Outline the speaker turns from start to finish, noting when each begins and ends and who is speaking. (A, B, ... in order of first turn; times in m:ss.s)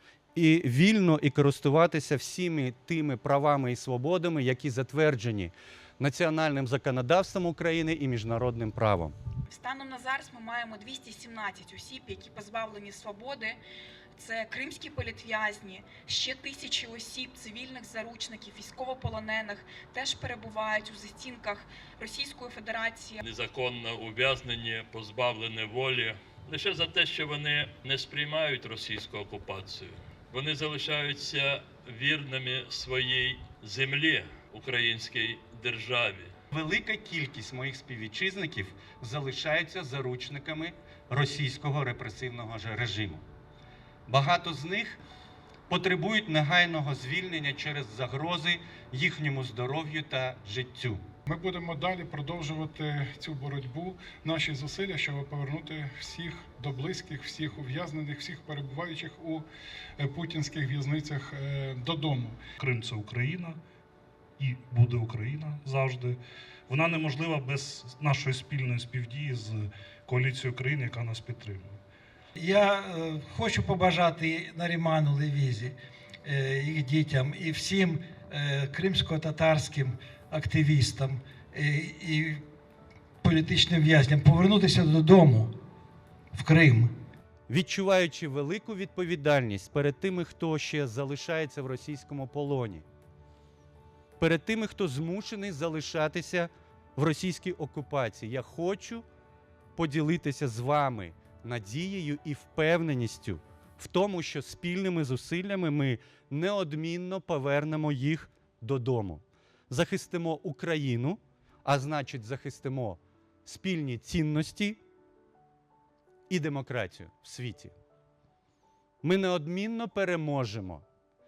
0:00.4-0:09.2 A
0:09.5-0:13.6 B
0:14.2-0:23.2 B
0:23.2-0:36.3 C
0:36.5-0:43.2 A
0:44.1-0:45.0 A
0:45.7-0:51.0 A
0:51.3-0:59.5 D
1:00.0-1:02.4 D
1:02.6-1:03.6 E
1:04.4-1:11.8 E
1:12.4-1:22.4 F
1:23.2-1:25.5 F
1:26.3-1:26.9 F
1:27.5-1:32.8 A
1:34.2-1:39.0 A
1:39.8-1:54.8 A
1:56.3-1:57.8 A
1:59.0-2:00.8 A